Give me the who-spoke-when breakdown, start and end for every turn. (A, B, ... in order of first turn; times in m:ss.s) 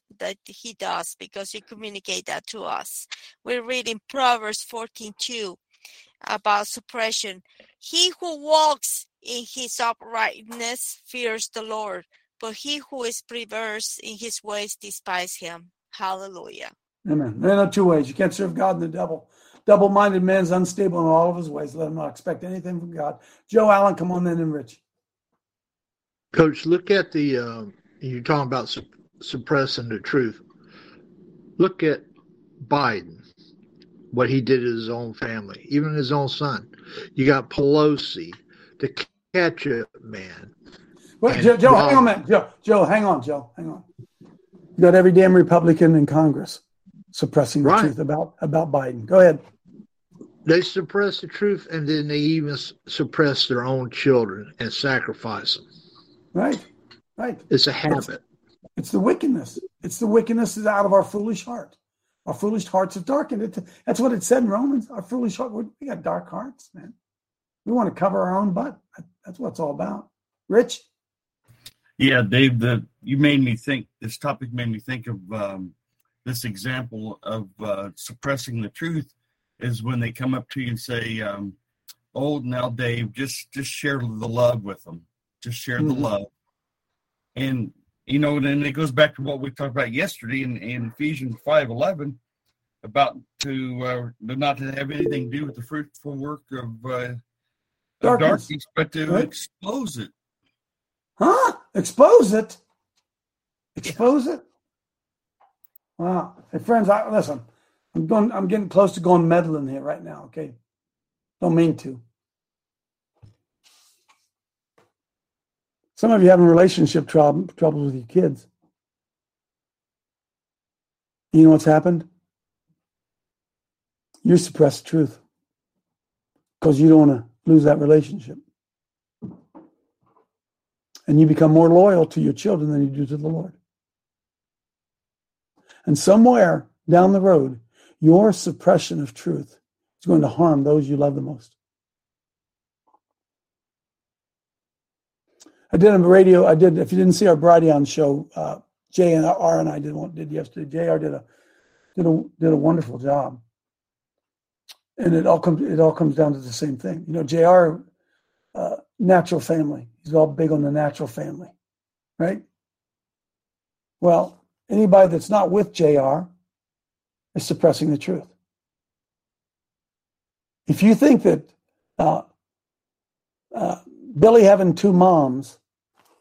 0:00.1-0:05.6 A
0:06.2-0:16.7 A
0:17.0-0:24.8 B
0:26.3-0:30.4 C
0:31.6-0:32.1 C
0:32.6-0:33.2 C
0:34.1-0:40.5 C
0:41.2-0:43.8 B
0:41.3-0:42.1 C
0:44.8-0:46.6 B
0:47.1-0:49.4 B
0:47.6-0:47.9 C
0:50.4-0:55.7 C
0:56.3-0:56.7 B
0:57.2-0:57.4 B
0:57.5-0:58.2 C
0:58.8-1:01.7 B
1:02.3-1:06.9 B
1:07.6-1:10.8 B
1:12.0-1:21.6 D
1:22.1-1:26.3 D
1:25.8-1:26.1 B
1:27.4-1:32.2 D
1:32.8-1:37.2 D
1:38.0-1:40.1 D
1:38.0-1:38.5 B
1:41.2-1:42.6 B
1:43.8-1:44.4 B
1:46.0-1:50.6 B
1:51.4-1:52.0 B
1:56.0-1:58.5 B
2:01.3-2:02.1 B
2:04.2-2:05.2 B
2:06.6-2:08.4 B
2:11.1-2:13.6 B
2:15.9-2:21.5 B
2:25.7-2:31.2 B
2:32.0-2:33.4 B
2:35.0-2:37.8 B
2:38.6-2:41.5 B
2:44.0-2:46.3 B
2:47.4-2:48.3 B
2:50.7-2:52.2 B
2:53.5-2:55.6 B